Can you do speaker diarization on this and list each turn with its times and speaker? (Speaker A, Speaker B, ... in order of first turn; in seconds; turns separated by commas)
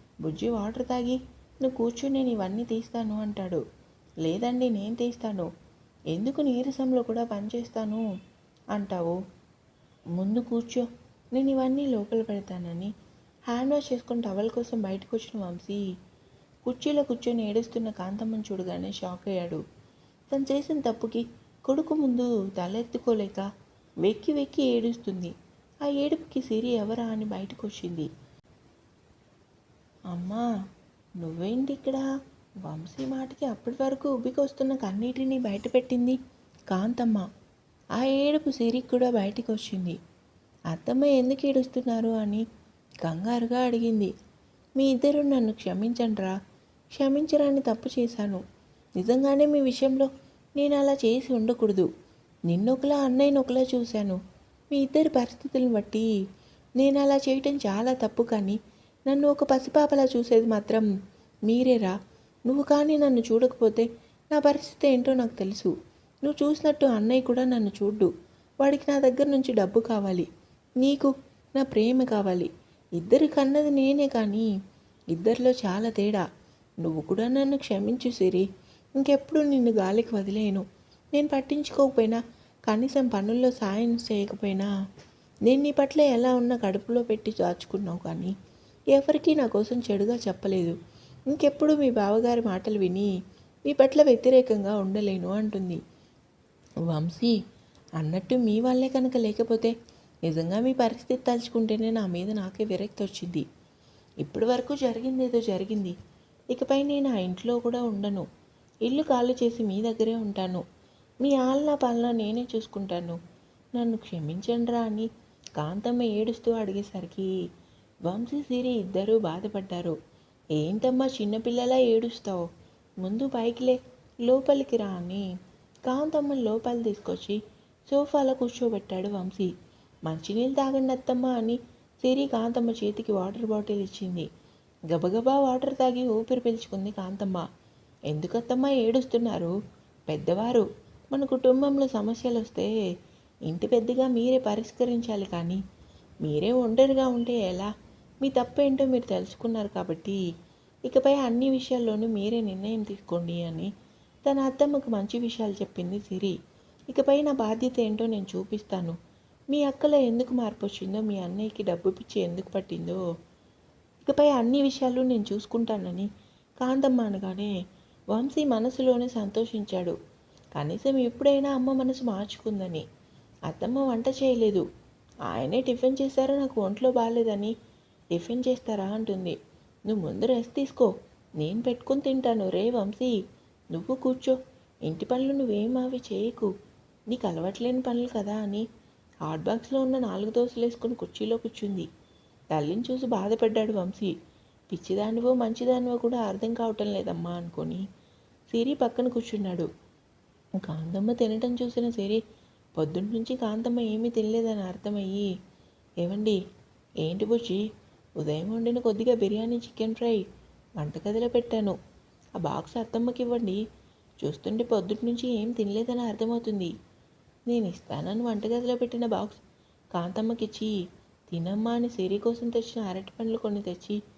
Speaker A: 0.2-3.6, Speaker A: 4.2-5.5, Speaker A: 6.1-8.0, Speaker A: 8.7-9.2, Speaker A: 10.2-12.9, Speaker A: 13.5-15.8, Speaker A: 16.6-19.6, Speaker A: 20.3-23.5, Speaker A: 24.0-25.3, Speaker A: 25.8-28.1, Speaker A: 30.1-30.5, Speaker A: 31.2-32.1, Speaker A: 32.6-36.2, Speaker A: 36.7-37.3, Speaker A: 38.0-40.0, Speaker A: 40.7-42.4, Speaker A: 43.0-44.1, Speaker A: 44.8-46.4, Speaker A: 46.9-48.4, Speaker A: 49.0-51.9, Speaker A: 52.5-54.2, Speaker A: 54.7-56.1, Speaker A: 56.8-60.9, Speaker A: 61.5-65.7, Speaker A: 66.2-68.1, Speaker A: 68.6-70.3, Speaker A: 70.8-74.5, Speaker A: 75.1-76.2, Speaker A: 76.8-78.5, Speaker A: 79.0-84.7, Speaker A: 85.5-88.3, Speaker A: 88.9-90.8, Speaker A: 91.3-93.1, Speaker A: 93.7-95.8, Speaker A: 96.8-97.4, Speaker A: 98.0-99.7, Speaker A: 100.2-103.4, Speaker A: 104.2-105.9, Speaker A: 106.5-108.3, Speaker A: 108.8-110.6, Speaker A: 111.2-113.2, Speaker A: 113.8-117.3, Speaker A: 118.1-120.0, Speaker A: 120.6-122.5, Speaker A: 123.0-125.2, Speaker A: 125.8-129.5, Speaker A: 130.1-134.3, Speaker A: 134.9-137.5, Speaker A: 138.1-139.6, Speaker A: 140.1-142.7, Speaker A: 143.4-145.6, Speaker A: 146.2-147.7, Speaker A: 148.2-150.2, Speaker A: 150.9-153.7, Speaker A: 154.2-156.3, Speaker A: 156.9-159.0, Speaker A: 159.5-163.0, Speaker A: 164.0-166.1, Speaker A: 166.6-167.5, Speaker A: 168.1-169.9, Speaker A: 170.6-172.8, Speaker A: 173.5-174.6, Speaker A: 175.3-177.5, Speaker A: 178.1-179.3, Speaker A: 179.9-183.2, Speaker A: 183.7-186.5, Speaker A: 187.1-188.7, Speaker A: 189.2-191.9, Speaker A: 192.5-194.1, Speaker A: 194.7-197.8, Speaker A: 198.5-199.7, Speaker A: 200.6-202.2, Speaker A: 202.8-205.3, Speaker A: 206.0-206.4, Speaker A: 207.0-207.6, Speaker A: 208.2-210.2, Speaker A: 210.8-211.8, Speaker A: 212.4-213.6, Speaker A: 214.2-216.7, Speaker A: 217.5-219.4, Speaker A: 219.9-220.7, Speaker A: 221.3-224.0